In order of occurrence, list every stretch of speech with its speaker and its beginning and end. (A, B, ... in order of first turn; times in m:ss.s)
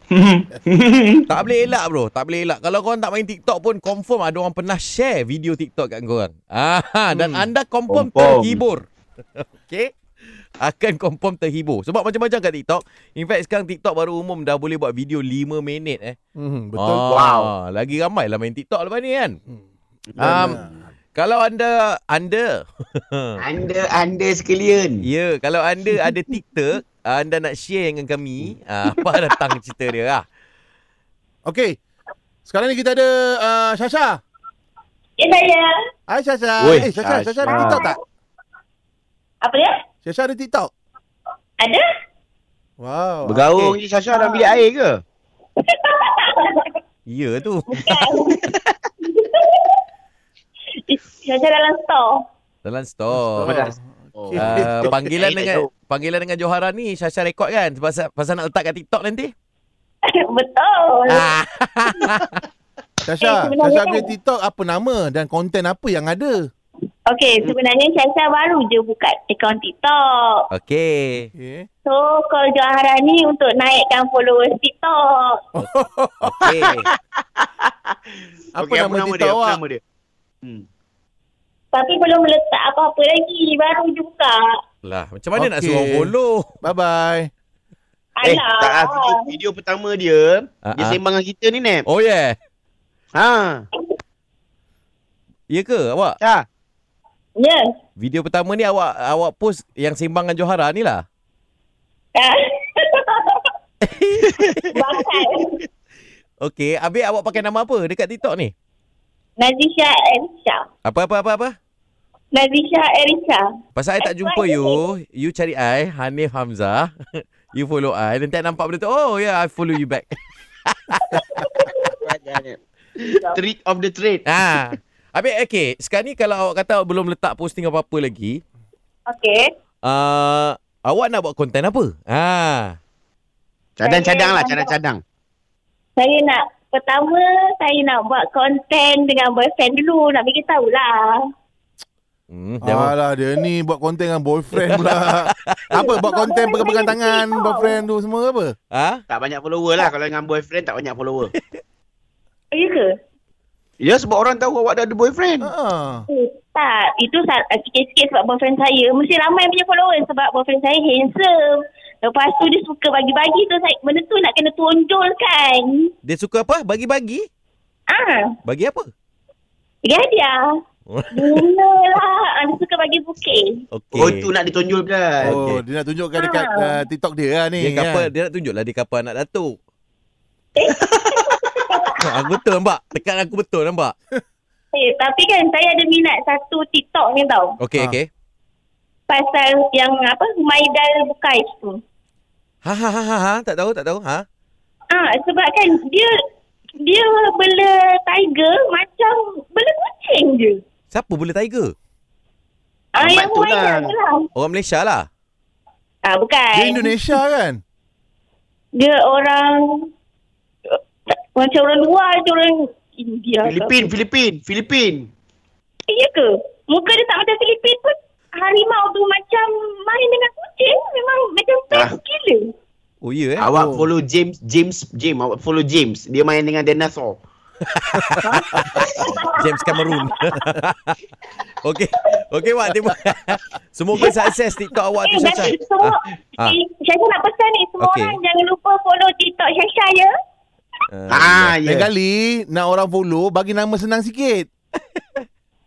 0:00.1-0:01.2 A
0:01.3-0:08.8 B
0:07.1-0:07.5 C
0:07.9-0:08.6 A
0:09.4-0:09.9 B
0:10.6-0:16.2 B
0:16.4-0:17.1 C
0:16.8-0:19.4 B
0:17.1-0:17.5 A
0:20.1-0:20.7 A
0:20.2-0:20.7 C
0:20.2-0:20.6 B
0:21.2-0:23.4 B
0:23.4-0:25.0 A
0:25.0-0:30.2 B
0:31.5-0:31.8 C
0:32.5-0:34.2 C
0:35.2-0:35.7 D
0:36.1-0:38.0 C
0:36.6-0:37.8 A
0:37.5-0:38.0 D
0:39.4-0:39.7 D
0:40.0-0:40.7 C
0:42.8-0:43.4 C
0:43.3-0:45.0 A
0:43.5-0:43.8 B
0:44.1-0:44.6 D
0:45.6-0:46.8 D
0:47.1-0:47.7 B
0:47.7-0:48.4 D
0:48.3-0:48.7 A
0:49.0-0:49.8 D
0:50.8-0:52.2 D
0:52.6-0:53.5 B
0:53.4-0:55.7 A
0:53.4-0:53.7 C
0:54.3-0:54.9 C
0:54.4-0:59.3 B
1:00.1-1:01.3 D
1:01.1-1:02.4 B
1:03.1-1:06.5 C
1:03.2-1:04.1 D
1:07.1-1:10.5 D
1:10.5-1:11.3 B
1:11.3-1:11.7 C
1:11.8-1:15.4 D
1:15.6-1:16.7 C
1:16.2-1:16.8 B
1:17.4-1:18.0 A
1:18.6-1:19.6 C
1:18.6-1:19.8 A
1:21.7-1:24.5 D
1:24.8-1:26.5 B
1:25.4-1:27.3 C
1:28.2-1:29.2 D
1:28.2-1:31.8 A
1:30.6-1:31.0 B
1:31.9-1:32.4 B
1:33.1-1:33.7 A
1:35.5-1:36.2 B
1:36.2-1:36.4 A
1:37.4-1:37.7 D
1:38.0-1:41.0 B
1:42.2-1:43.5 D
1:43.8-1:44.7 B
1:44.7-1:45.6 D
1:46.4-1:48.5 B
1:49.4-1:50.7 D
1:50.8-1:51.6 B
1:52.3-1:53.5 D
1:53.8-2:00.2 B
1:54.0-1:54.8 D
2:00.7-2:01.2 B
2:01.1-2:01.7 D
2:01.8-2:04.3 A
2:04.3-2:08.4 B
2:09.1-2:09.5 D
2:09.8-2:12.8 B
2:13.8-2:15.0 A
2:13.8-2:14.7 D
2:16.0-2:21.2 D
2:22.3-2:22.9 B
2:22.6-2:28.6 C
2:24.6-2:25.8 B
2:25.7-2:27.8 D
2:28.7-2:29.0 B
2:29.1-2:31.3 A
2:32.5-2:32.9 D
2:33.8-2:35.5 A
2:35.4-2:36.1 C
2:36.1-2:45.9 D
2:46.0-2:47.3 B
2:47.9-2:48.4 D
2:48.4-2:48.9 B
2:49.8-2:50.4 D
2:50.9-2:51.4 B
2:51.1-2:53.6 D
2:53.7-2:54.3 B
2:53.9-2:55.3 A
2:55.2-2:58.1 C
2:55.2-2:55.6 B
2:56.2-2:56.7 D
2:57.6-2:59.6 B
3:00.6-3:02.0 D
3:02.0-3:04.0 B
3:04.7-3:07.6 D
3:07.6-3:08.1 B
3:09.1-3:11.8 D
3:12.6-3:14.2 B
3:14.9-3:16.1 D
3:16.8-3:20.6 D
3:20.9-3:21.8 B
3:23.0-3:24.2 D
3:23.0-3:23.9 A
3:24.4-3:25.1 B
3:26.0-3:26.9 D
3:26.5-3:27.6 C
3:28.8-3:29.9 D
3:31.4-3:33.9 D
3:33.4-3:35.1 A
3:35.9-3:42.5 D
3:43.0-3:43.5 B
3:43.4-3:47.2 A
3:43.5-3:43.9 C
3:47.7-3:48.8 B
3:48.2-3:50.1 D
3:49.4-3:51.0 B
3:51.6-3:56.6 B
3:55.1-4:00.1 D
3:57.8-3:58.2 B
4:00.9-4:01.6 B
4:01.1-4:01.9 A
4:01.6-4:04.5 C